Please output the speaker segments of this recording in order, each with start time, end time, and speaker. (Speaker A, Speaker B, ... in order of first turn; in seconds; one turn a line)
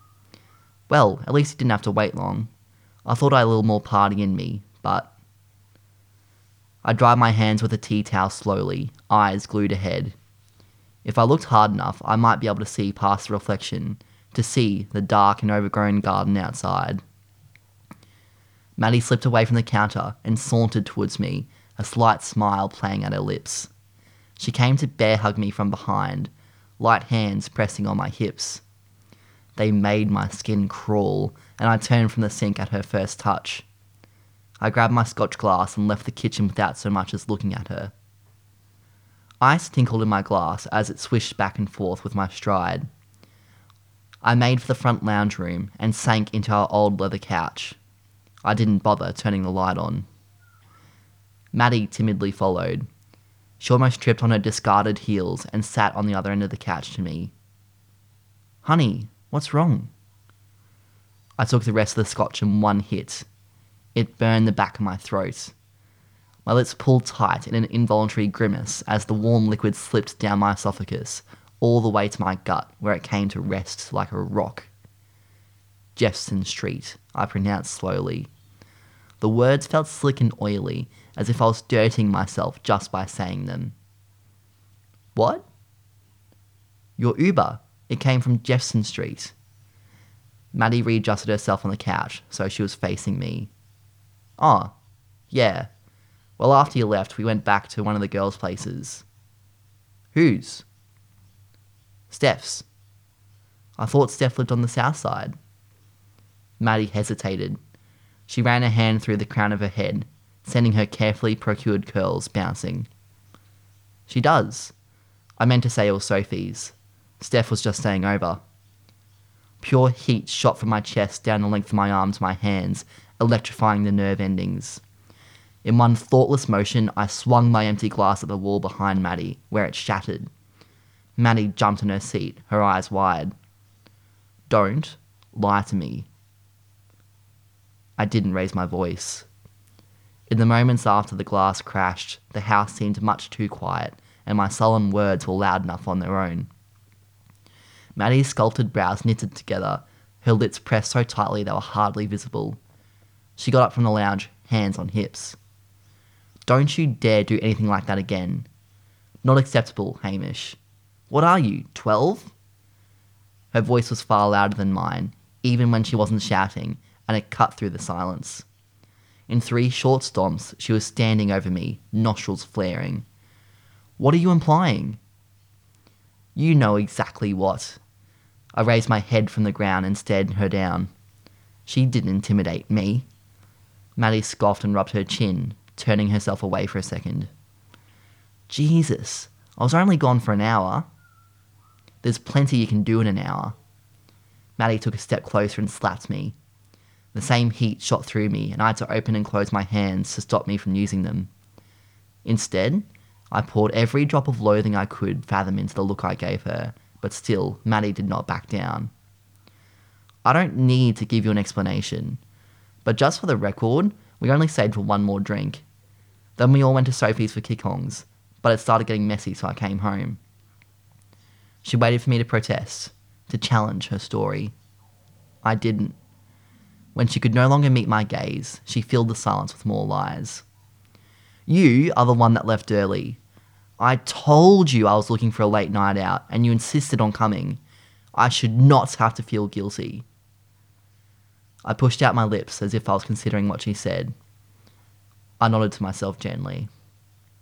Speaker A: 0.9-2.5
Speaker A: 3.1-5.1
Speaker A: 6.8-10.2
Speaker A: 11.0-17.0
Speaker A: 18.8-23.7
Speaker A: 24.4-28.6
Speaker A: 29.6-33.7
Speaker A: 34.6-37.9
Speaker A: 39.4-42.9
Speaker A: 44.2-47.8
Speaker A: 48.5-50.1
Speaker A: 51.5-52.9
Speaker A: 53.6-57.3
Speaker A: 58.6-59.9
Speaker A: 61.4-63.3
Speaker A: 64.0-65.5
Speaker A: 66.5-74.7
Speaker A: 76.0-78.3
Speaker A: 79.2-83.8
Speaker A: 85.2-85.5
Speaker A: 87.0-89.3
Speaker A: 90.5-93.5
Speaker A: 94.4-94.7
Speaker A: 95.3-95.7
Speaker A: 96.4-99.0
Speaker A: 100.1-100.7
Speaker A: 102.1-102.7
Speaker A: 103.8-105.4
Speaker A: 106.6-107.6
Speaker A: 108.3-112.9
Speaker A: 114.1-114.7
Speaker A: 115.4-118.4
Speaker A: 119.6-124.8
Speaker A: 125.6-130.3
Speaker A: 131.2-133.3
Speaker A: 134.5-136.1
Speaker A: 138.0-139.3
Speaker A: 140.3-146.5
Speaker A: 148.0-152.6
Speaker A: 153.4-155.4
Speaker A: 156.5-158.5
Speaker A: 159.2-160.6
Speaker A: 161.1-162.3
Speaker A: 163.5-168.5
Speaker A: 169.3-173.1
Speaker A: 174.0-175.0
Speaker A: 176.3-177.8
Speaker A: 178.6-180.9
Speaker A: 181.7-183.1
Speaker A: 184.0-187.3
Speaker A: 188.5-190.9
Speaker A: 192.0-193.6
Speaker A: 194.6-196.4
Speaker A: 197.1-201.3
Speaker A: 202.2-208.9
Speaker A: 210.2-212.2
Speaker A: 212.8-215.7
Speaker A: 216.4-220.2
Speaker A: 221.6-224.6
Speaker A: 225.4-226.0
Speaker A: 226.9-230.4
Speaker A: 231.5-233.2
Speaker A: 233.8-237.6
Speaker A: 238.2-240.1
Speaker A: 241.7-244.1
Speaker A: 245.4-246.7